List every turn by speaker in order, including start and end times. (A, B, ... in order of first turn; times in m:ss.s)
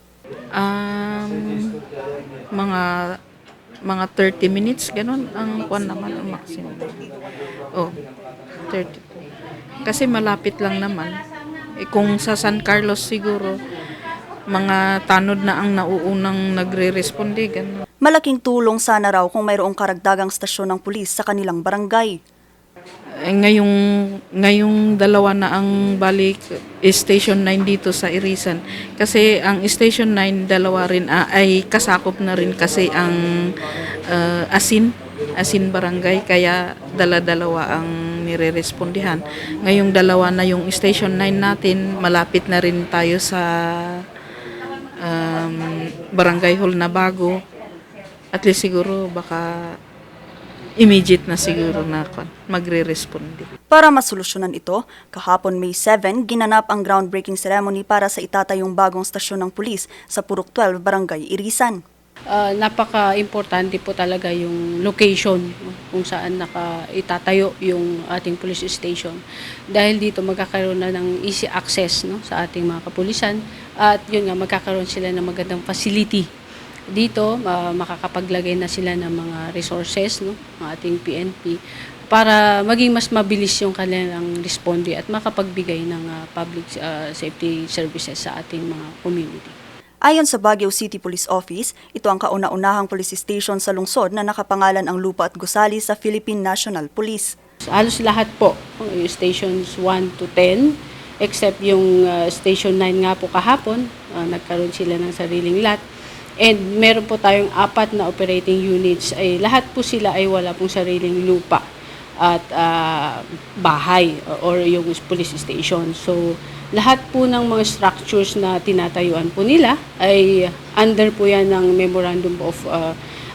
0:00.6-0:01.8 A
0:02.6-0:02.8 A
0:03.9-0:07.0 A
0:08.7-0:09.3 A
0:09.8-0:11.2 A
0:11.8-0:13.6 A
0:14.5-0:17.8 A
0:18.0-0:22.2 B
0:23.3-0:23.7 A
0:24.4-0:44.0 A
0:45.0-0:47.4 A
0:48.3-0:49.8 A
0:50.8-0:53.5 A
0:53.7-1:01.8 B
1:02.3-1:16.3 C
1:16.9-1:29.6 C
1:30.1-1:37.3 B
1:37.7-1:45.8 C
1:46.4-1:51.6 C
1:52.2-2:03.0 C